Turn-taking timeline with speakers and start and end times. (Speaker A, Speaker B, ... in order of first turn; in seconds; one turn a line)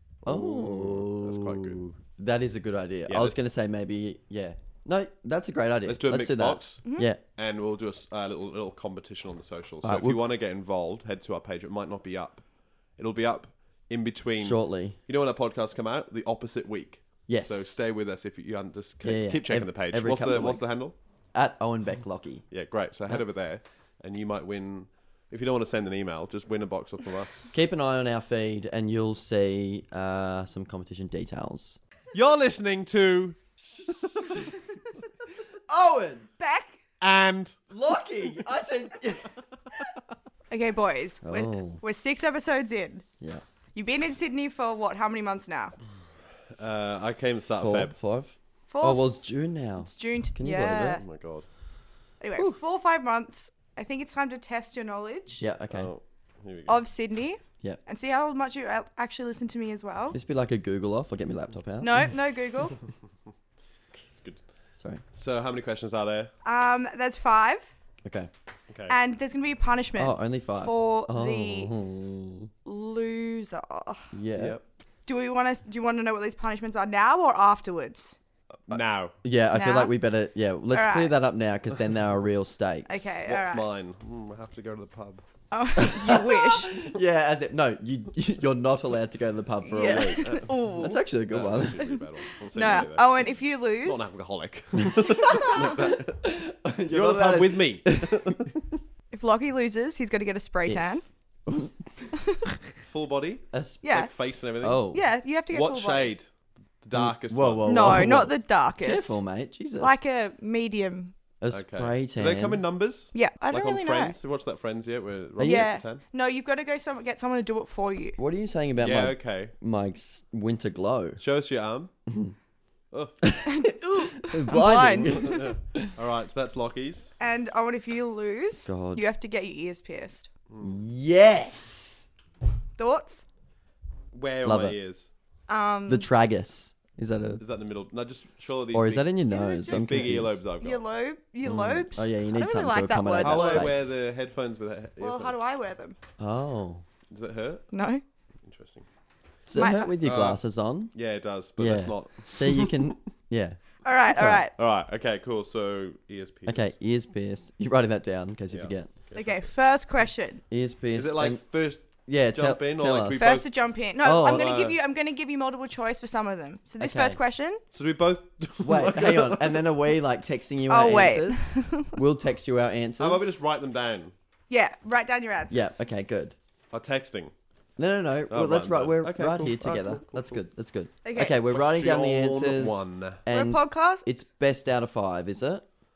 Speaker A: 0.2-1.8
Speaker B: 0.2-7.2
Speaker A: 3.1-3.4
Speaker A: 5.9-6.8
Speaker A: 7.4-12.4
Speaker B: 9.8-10.2
Speaker A: 13.0-20.9
Speaker B: 14.3-15.0
Speaker B: 17.3-17.8
Speaker B: 19.0-20.7
Speaker B: 21.3-22.4
Speaker A: 22.5-27.4
Speaker B: 27.5-31.8
Speaker A: 32.1-33.4
Speaker B: 33.8-34.5
Speaker B: 35.7-36.3
Speaker C: 36.4-36.8
Speaker A: 37.0-37.6
Speaker B: 37.7-39.3
Speaker C: 40.5-43.0
Speaker B: 41.2-41.8
Speaker C: 43.8-45.8
Speaker A: 46.6-47.9
Speaker B: 47.6-51.0
Speaker C: 48.7-49.2
Speaker C: 49.8-51.0
Speaker A: 51.0-51.5
Speaker C: 52.2-55.4
Speaker B: 55.4-55.9
Speaker A: 55.7-56.8
Speaker C: 56.7-60.2
Speaker B: 60.1-62.1
Speaker C: 61.8-62.8
Speaker A: 64.2-64.4
Speaker A: 65.2-66.3
Speaker C: 66.5-67.7
Speaker B: 68.0-68.3
Speaker A: 68.7-69.0
Speaker C: 68.9-71.7
Speaker B: 70.0-72.5
Speaker C: 72.7-74.1
Speaker B: 74.1-74.6
Speaker A: 74.4-74.6
Speaker C: 75.1-78.2
Speaker A: 78.7-79.2
Speaker B: 78.7-83.1
Speaker C: 79.5-79.9
Speaker C: 80.7-81.2
Speaker C: 82.9-83.7
Speaker A: 83.2-85.2
Speaker C: 85.5-86.8
Speaker B: 85.8-92.0
Speaker C: 89.7-91.0
Speaker A: 89.9-96.2
Speaker C: 92.5-94.1
Speaker B: 95.6-98.3
Speaker A: 96.9-98.5
Speaker C: 99.1-101.0
Speaker B: 101.5-101.8
Speaker A: 102.8-104.8
Speaker B: 103.5-103.9
Speaker C: 103.8-104.1
Speaker B: 104.6-105.0
Speaker C: 104.9-106.1
Speaker A: 105.5-106.3
Speaker A: 106.8-108.2
Speaker B: 106.9-110.0
Speaker C: 107.7-109.2
Speaker C: 109.8-111.1
Speaker B: 111.4-112.6
Speaker A: 111.5-116.0
Speaker C: 113.1-114.2
Speaker B: 115.4-115.7
Speaker C: 115.4-118.2
Speaker B: 118.2-121.2
Speaker A: 118.8-119.5
Speaker A: 121.2-121.9
Speaker B: 123.2-123.5
Speaker C: 123.5-125.3
Speaker B: 124.2-125.9
Speaker A: 125.0-127.2
Speaker C: 127.2-130.3
Speaker B: 128.7-129.1
Speaker A: 130.5-130.8
Speaker B: 130.6-132.0
Speaker C: 132.8-133.2
Speaker A: 134.1-135.1
Speaker B: 134.4-134.8
Speaker C: 135.5-136.1
Speaker B: 135.9-137.4
Speaker A: 137.4-139.1
Speaker B: 138.7-140.4
Speaker C: 139.3-143.8
Speaker A: 139.7-140.8
Speaker B: 141.4-144.0
Speaker A: 143.2-145.3
Speaker C: 145.0-146.0
Speaker B: 146.2-146.8
Speaker A: 147.1-147.7
Speaker C: 147.7-148.0
Speaker A: 148.4-148.8
Speaker B: 149.5-150.9
Speaker C: 149.6-149.9
Speaker A: 150.0-150.4
Speaker A: 150.9-152.9
Speaker B: 151.6-154.5
Speaker C: 153.8-154.5
Speaker A: 154.6-156.7
Speaker B: 156.5-158.9
Speaker A: 158.5-159.5
Speaker C: 159.1-160.4
Speaker B: 160.5-163.2
Speaker A: 160.9-163.5
Speaker C: 163.2-167.6
Speaker B: 164.0-164.5
Speaker A: 164.3-164.8
Speaker B: 166.8-167.2
Speaker A: 167.7-169.7
Speaker B: 168.6-173.3
Speaker C: 170.7-171.9
Speaker A: 173.0-174.1
Speaker C: 174.5-175.8
Speaker B: 175.5-176.3
Speaker A: 176.7-177.3
Speaker B: 177.8-185.7
Speaker A: 178.3-180.4
Speaker C: 181.0-181.4
Speaker A: 181.3-183.2
Speaker C: 183.3-184.1